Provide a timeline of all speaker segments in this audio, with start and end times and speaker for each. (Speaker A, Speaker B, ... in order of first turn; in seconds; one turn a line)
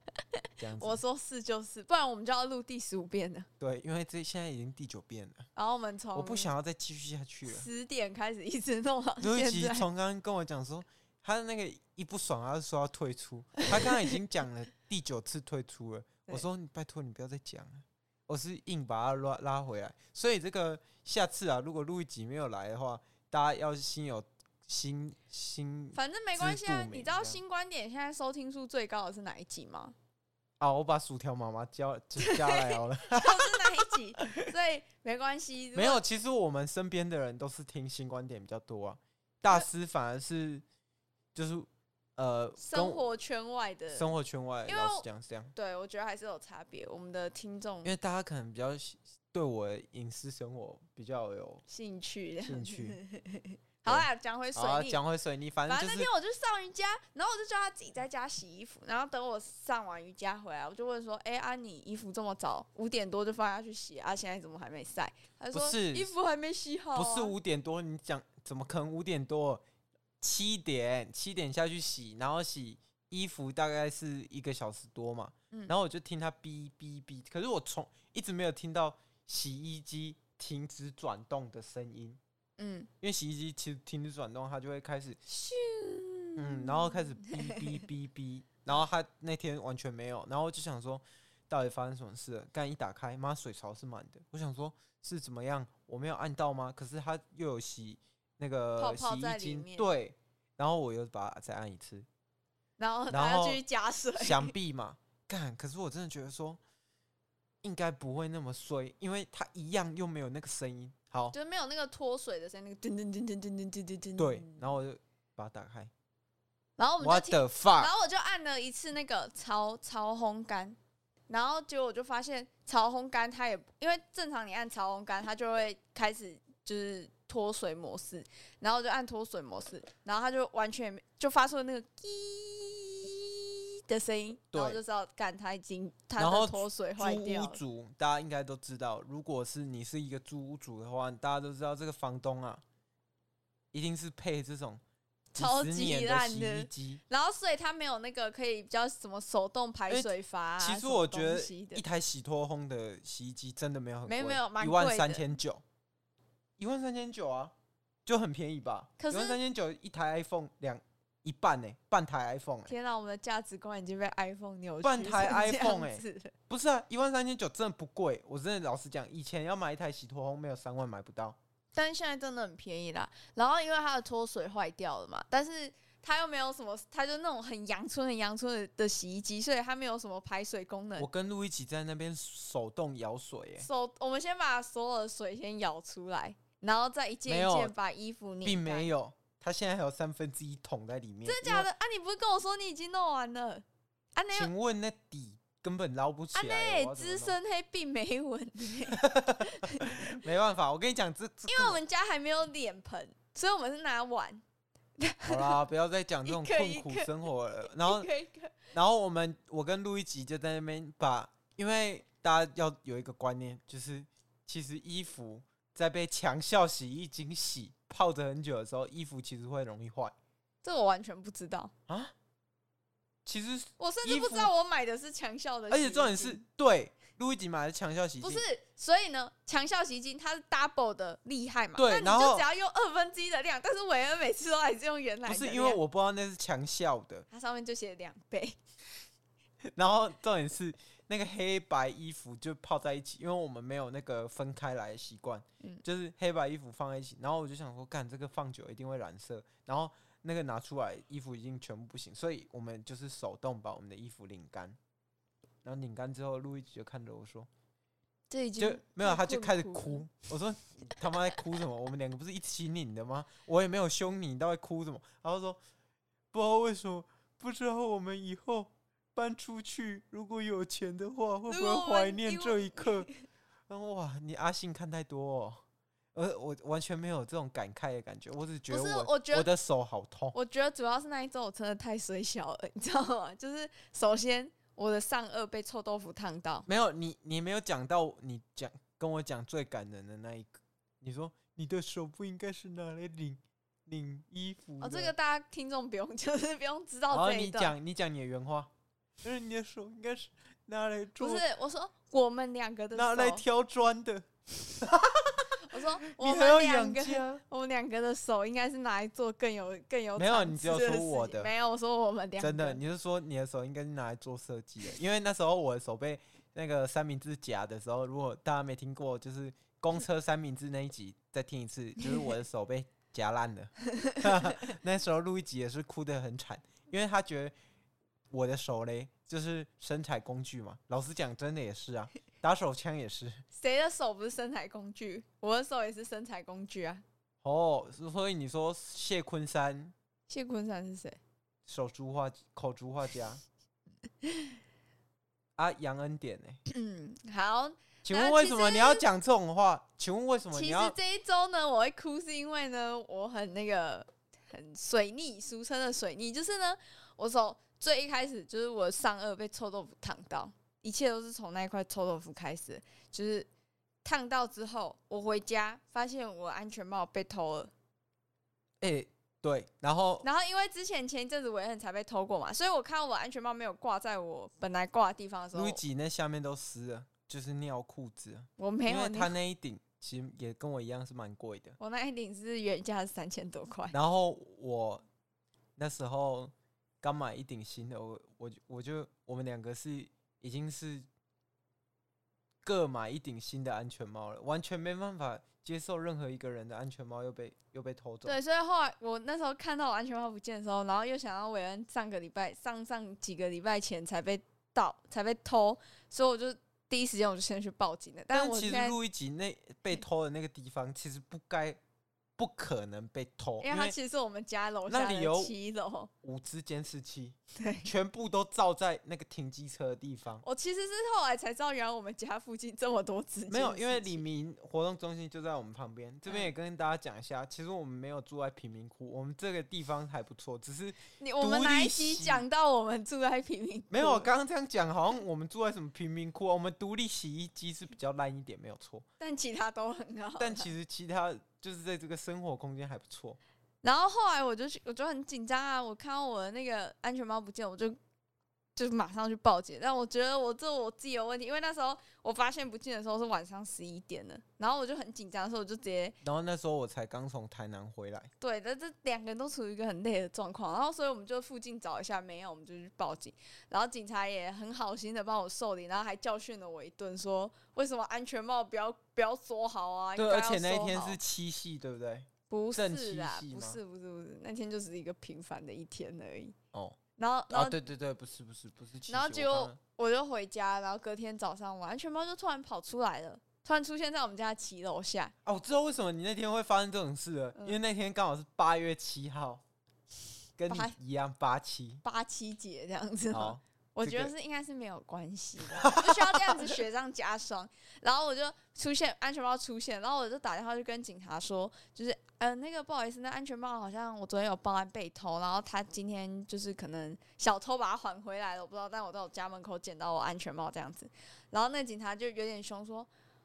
Speaker A: 0.4-3.5
Speaker B: 0.6-1.0
Speaker B: 3.6-5.5
Speaker A: 5.5-6.5
Speaker B: 6.1-7.7
Speaker A: 7.5-9.8
Speaker B: 9.2-27.4
Speaker A: 25.9-29.9
Speaker B: 30.6-34.5
Speaker A: 32.2-36.0
Speaker B: 35.7-40.6
Speaker B: 41.3-43.0
Speaker A: 42.6-44.1
Speaker B: 43.9-45.5
Speaker A: 44.7-47.9
Speaker B: 47.8-51.6
Speaker A: 51.7-55.0
Speaker B: 52.4-53.0
Speaker B: 53.9-56.1
Speaker A: 55.7-67.3
Speaker B: 65.5-66.1
Speaker B: 66.9-69.6
Speaker B: 70.2-82.2
Speaker A: 82.6-82.9
Speaker B: 83.0-85.2
Speaker A: 85.3-87.8
Speaker B: 86.4-102.1
Speaker A: 98.8-99.9
Speaker A: 102.8-104.5
Speaker B: 103.1-103.6
Speaker B: 104.2-106.6
Speaker B: 107.6-111.3
Speaker A: 111.3-114.6
Speaker B: 114.2-115.9
Speaker A: 116.8-120.8
Speaker B: 117.0-117.9
Speaker A: 121.3-137.6
Speaker B: 134.5-134.8
Speaker B: 136.2-142.6
Speaker B: 143.7-144.8
Speaker A: 145.3-151.8
Speaker B: 145.3-147.0
Speaker B: 149.9-155.6
Speaker A: 154.1-155.2
Speaker B: 156.6-157.5
Speaker B: 158.1-162.7
Speaker A: 159.0-159.4
Speaker A: 162.7-166.3
Speaker B: 164.8-171.4
Speaker A: 171.7-181.1
Speaker B: 181.0-183.7
Speaker A: 183.6-188.9
Speaker B: 187.3-187.7
Speaker B: 188.4-191.7
Speaker A: 191.2-194.5
Speaker B: 194.3-197.3
Speaker A: 196.3-200.1
Speaker B: 198.9-201.8
Speaker A: 201.5-204.4
Speaker A: 205.0-205.6
Speaker B: 205.2-208.1
Speaker A: 206.2-207.1
Speaker A: 207.6-208.6
Speaker B: 208.7-220.1
Speaker A: 220.6-221.7
Speaker B: 221.9-222.1
Speaker B: 223.2-224.5
Speaker A: 223.8-226.4
Speaker B: 225.7-228.4
Speaker A: 228.2-235.8
Speaker B: 231.8-232.4
Speaker B: 235.2-237.2
Speaker A: 237.3-238.6
Speaker B: 239.8-254.8
Speaker B: 255.6-257.5
Speaker A: 258.3-260.0
Speaker B: 258.6-265.6
Speaker B: 266.3-273.1
Speaker A: 271.5-273.1
Speaker B: 273.7-275.6
Speaker B: 276.1-280.4
Speaker A: 278.7-279.5
Speaker A: 280.3-286.6
Speaker B: 286.7-295.1
Speaker A: 294.8-297.7
Speaker B: 297.1-298.7
Speaker B: 299.2-301.4
Speaker A: 301.2-303.4
Speaker B: 302.9-304.3
Speaker B: 304.8-307.4
Speaker A: 305.6-312.8
Speaker B: 310.2-311.5
Speaker B: 312.4-327.5
Speaker A: 324.0-324.2
Speaker B: 328.3-333.4
Speaker A: 333.5-337.0
Speaker B: 337.4-339.9
Speaker A: 340.3-341.2
Speaker B: 341.7-343.4
Speaker A: 344.2-344.5
Speaker B: 345.6-346.6
Speaker A: 346.7-349.0
Speaker B: 348.0-350.9
Speaker A: 350.5-363.5
Speaker A: 364.0-367.7
Speaker B: 368.8-370.2
Speaker A: 370.2-375.8
Speaker B: 375.5-381.8
Speaker A: 378.6-379.3
Speaker A: 381.8-383.9
Speaker B: 383.9-385.0
Speaker B: 385.8-391.1
Speaker B: 392.6-398.4
Speaker A: 398.2-409.0
Speaker B: 408.3-411.8
Speaker B: 412.4-413.9
Speaker A: 413.6-416.1
Speaker B: 414.9-415.5
Speaker B: 416.2-420.4
Speaker A: 417.5-417.9
Speaker A: 420.4-424.2
Speaker B: 423.5-432.4
Speaker A: 431.2-434.3
Speaker B: 433.9-439.0
Speaker A: 439.2-440.7
Speaker B: 440.4-443.4
Speaker A: 443.8-448.0
Speaker A: 448.8-456.2
Speaker B: 456.2-458.3
Speaker A: 458.4-471.2
Speaker B: 470.1-473.8
Speaker A: 472.5-476.5
Speaker A: 477.2-477.8
Speaker B: 477.5-479.8
Speaker A: 479.1-485.3
Speaker B: 485.4-489.6
Speaker B: 490.6-492.0
Speaker A: 490.7-490.9
Speaker A: 492.0-513.1
Speaker B: 493.3-494.3
Speaker B: 495.8-496.7